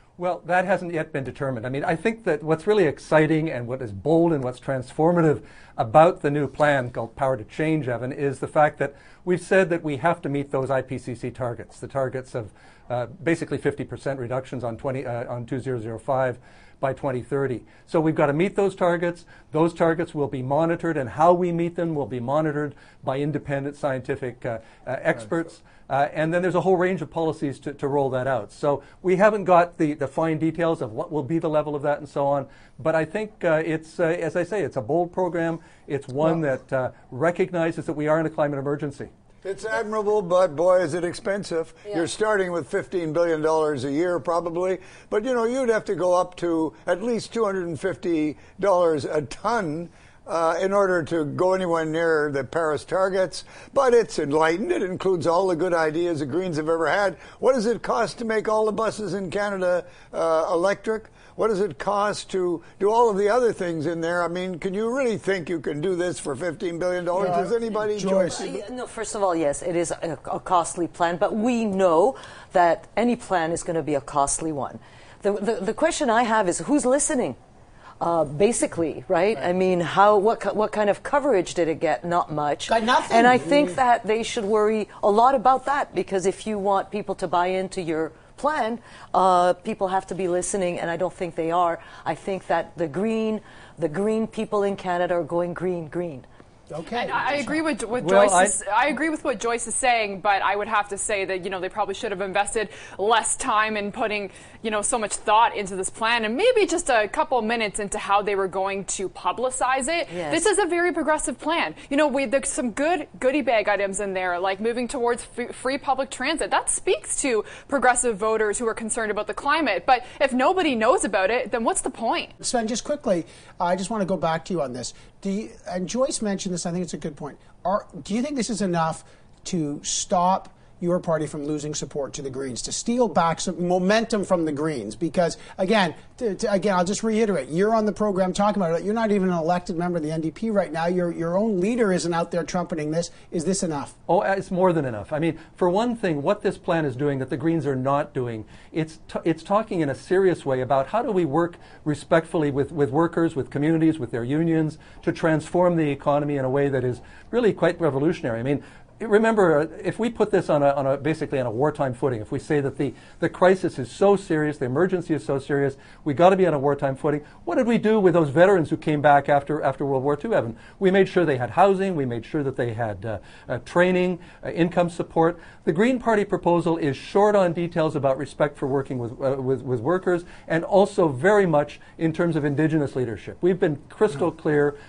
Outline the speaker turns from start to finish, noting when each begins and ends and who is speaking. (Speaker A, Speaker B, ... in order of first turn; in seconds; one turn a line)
Speaker A: 0.2-39.1
Speaker B: 39.4-68.5
Speaker C: 67.2-68.6
Speaker D: 68.3-77.4
Speaker D: 78.0-96.2
Speaker C: 82.7-83.8
Speaker C: 96.7-97.6
Speaker E: 96.9-122.3
Speaker A: 98.0-98.5
Speaker D: 110.1-110.5
Speaker C: 122.4-143.9
Speaker A: 144.1-184.8